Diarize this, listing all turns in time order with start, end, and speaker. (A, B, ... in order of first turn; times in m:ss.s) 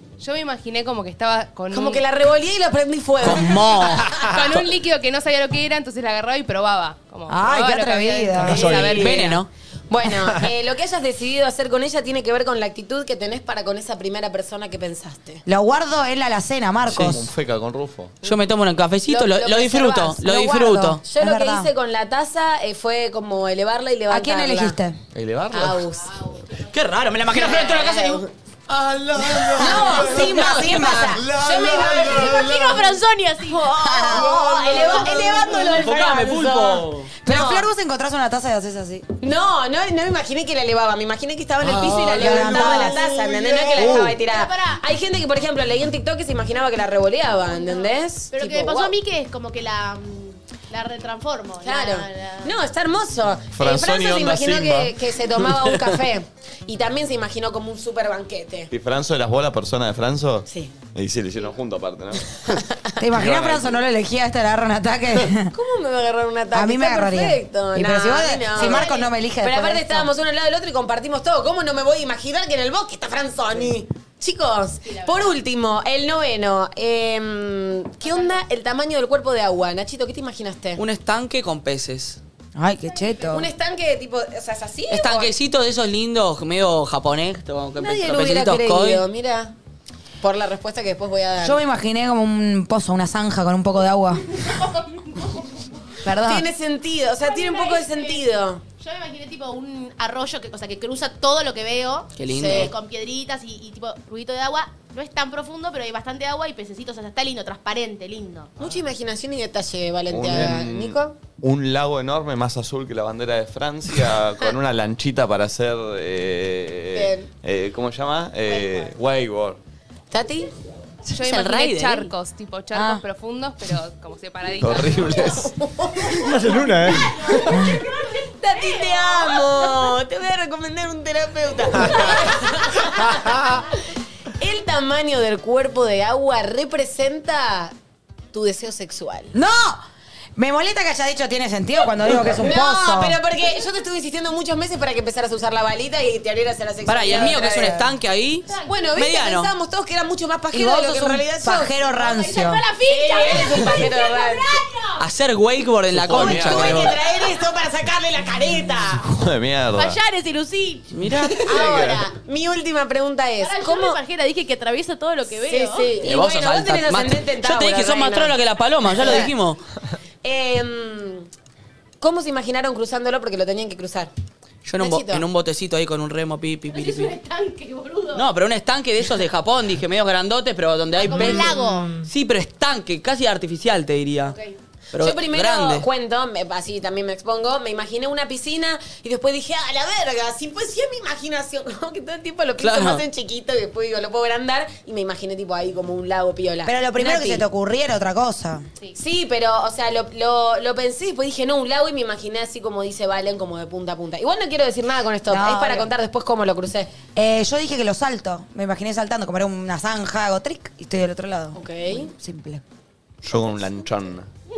0:00.2-0:02.0 A
0:01.7-0:03.8 B
0:03.2-0:04.2 C
0:04.2-0:09.4 A
0:07.3-0:08.8 D
0:08.4-0:09.0 E
0:08.5-0:15.4 B
0:09.0-0:09.5 C
0:15.5-0:17.3 D
0:16.9-0:18.2 F
0:16.9-0:17.2 C
0:18.2-0:21.0 C
0:19.1-0:20.2 B
0:20.2-0:21.7 D
0:21.0-0:24.8 B
0:24.1-0:25.0 D
0:25.1-0:25.8 F
0:25.5-0:26.1 B
0:26.1-0:26.7 G
0:26.7-0:28.2 C
0:27.3-0:28.3 B
0:28.7-0:33.0 F
0:29.5-0:32.5 B
0:29.5-0:31.2 D
0:31.7-0:33.7 G
0:33.5-0:37.7 B
0:33.8-0:34.4 D
0:34.1-0:35.6 F
0:35.0-0:35.6 G
0:35.5-0:36.3 E
0:35.6-0:37.1 C
0:37.2-0:39.1 D
0:39.2-0:48.9 B
0:41.6-0:44.2 E
0:42.0-0:43.0 D
0:43.8-0:44.8 G
0:47.4-0:52.6 G
0:51.6-0:58.7 B
0:53.6-0:55.9 F
0:58.7-1:02.6 F
1:00.5-1:00.7 B
1:03.0-1:05.5 D
1:03.1-1:03.8 F
1:05.5-1:20.8 B
1:06.5-1:10.1 D
1:08.6-1:09.1 G
1:14.8-1:15.3 G
1:18.0-1:18.4 G
1:20.8-1:22.2 C
1:22.6-1:23.5 D
1:23.3-1:25.3 B
1:24.9-1:29.0 C
1:27.8-1:29.5 B
1:30.2-1:31.6 B
1:31.4-1:34.3 D
1:34.4-1:35.5 G
1:36.0-1:36.5 D
1:36.2-1:38.6 B
1:37.2-1:38.3 G
1:38.8-1:48.5 G
1:42.2-1:42.7 C
1:42.3-1:42.7 B
1:48.6-1:51.2 B
1:50.1-1:59.6 F
1:56.9-1:57.3 B
2:00.1-2:00.5 B
2:01.1-2:05.3 A
2:01.2-2:02.1 C
2:02.7-2:03.0 D
2:04.6-2:05.6 F
2:05.4-2:06.3 B
2:06.2-2:07.2 E
2:06.9-2:09.9 G
2:07.6-2:13.6 B
2:11.9-2:12.9 G
2:14.4-2:17.7 B
2:18.3-2:19.3 B
2:19.3-2:19.8 D
2:20.4-2:23.2 D
2:22.1-2:27.8 B
2:26.9-2:29.5 C
2:27.3-2:27.9 D
2:28.5-2:28.9 G
2:28.7-2:31.7 B
2:30.5-2:32.6 D
2:31.9-2:35.0 G
2:32.9-2:34.6 B
2:35.0-2:37.0 C
2:35.9-2:37.0 F
2:36.1-2:39.0 B
2:39.0-2:40.0 F
2:39.7-2:42.1 G
2:40.9-2:41.6 C
2:41.3-2:42.1 F
2:41.4-2:44.0 B
2:43.4-2:46.0 G
2:45.3-2:48.4 B
2:46.0-2:49.6 C
2:48.9-2:49.3 B
2:50.2-2:51.3 B
2:52.0-2:54.1 B
2:54.6-2:57.2 C
2:54.8-2:55.2 B
2:56.7-2:58.3 G
2:58.1-3:04.4 C
3:01.0-3:01.9 G
3:01.1-3:02.1 E
3:04.9-3:05.9 C
3:05.0-3:17.4 B
3:12.6-3:13.0 C
3:16.6-3:18.7 D
3:19.0-3:26.9 B
3:25.3-3:25.9 D
3:27.2-3:32.6 D
3:31.5-3:32.1 B
3:33.2-3:34.3 F